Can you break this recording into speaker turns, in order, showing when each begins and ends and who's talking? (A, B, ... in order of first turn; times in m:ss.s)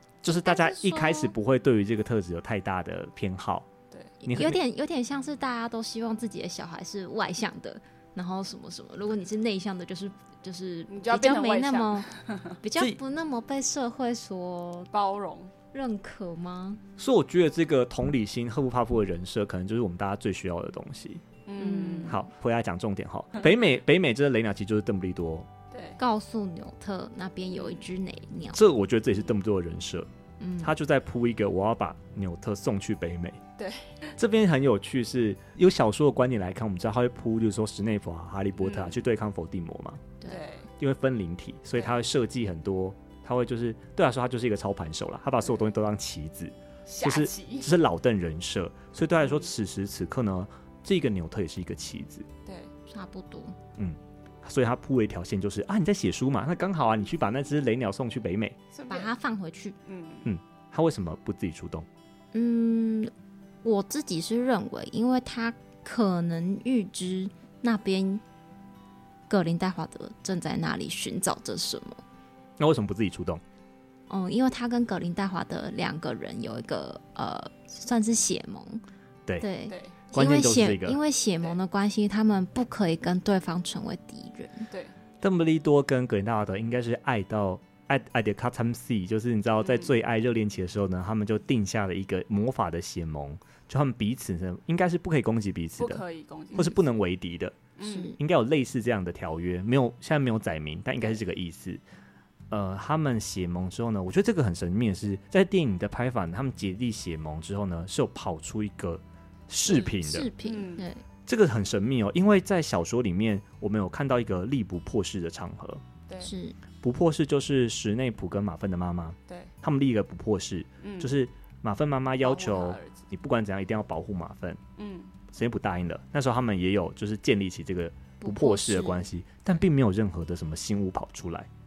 0:00.2-0:03.7 A
0:00.3-0:01.4 B
0:04.2-0:12.1 B
0:04.3-0:04.6 A
0:10.9-0:12.6 C
0:12.6-0:14.9 B
0:14.9-0:15.5 C
0:15.7-0:16.8 B
0:17.0-0:21.2 A
0:21.5-0:22.2 C
0:21.6-0:22.2 B
0:22.1-0:25.5 A
0:25.7-0:26.0 C
0:26.0-0:28.6 B
0:27.5-0:27.9 C
0:28.5-0:30.1 A
0:30.4-0:30.7 B
0:30.6-0:33.4 A
0:33.6-0:34.1 C
0:34.2-0:40.1 A
0:38.6-0:39.0 C
0:40.3-0:40.7 C
0:40.8-0:52.3 A
0:46.9-0:47.7 C
0:49.2-0:49.5 C
0:52.4-0:52.7 C
0:52.9-0:53.6 B
0:53.8-0:58.6 A
0:58.7-0:59.1 C
0:58.9-0:59.8 B
0:59.8-1:00.3 C
1:00.2-1:01.9 A
1:02.3-1:03.1 B
1:03.6-1:08.2 B
1:09.3-1:12.0 B
1:12.6-1:13.4 A
1:14.1-1:18.8 B
1:19.4-1:24.7 B
1:19.7-1:20.0 C
1:20.1-1:21.0 A
1:25.2-1:37.6 A
1:29.6-1:29.9 C
1:35.8-1:36.8 C
1:37.8-1:38.2 C
1:37.8-1:38.2 B
1:38.2-1:41.8 A
1:42.5-1:50.3 A
1:49.7-1:51.0 B
1:50.4-1:50.9 C
1:51.3-1:55.8 A
1:56.1-1:56.3 C
1:56.2-1:56.6 B
1:56.8-2:04.6 A
2:00.8-2:01.1 C
2:02.2-2:03.0 C
2:04.8-2:05.2 C
2:05.3-2:11.5 A
2:08.2-2:09.1 B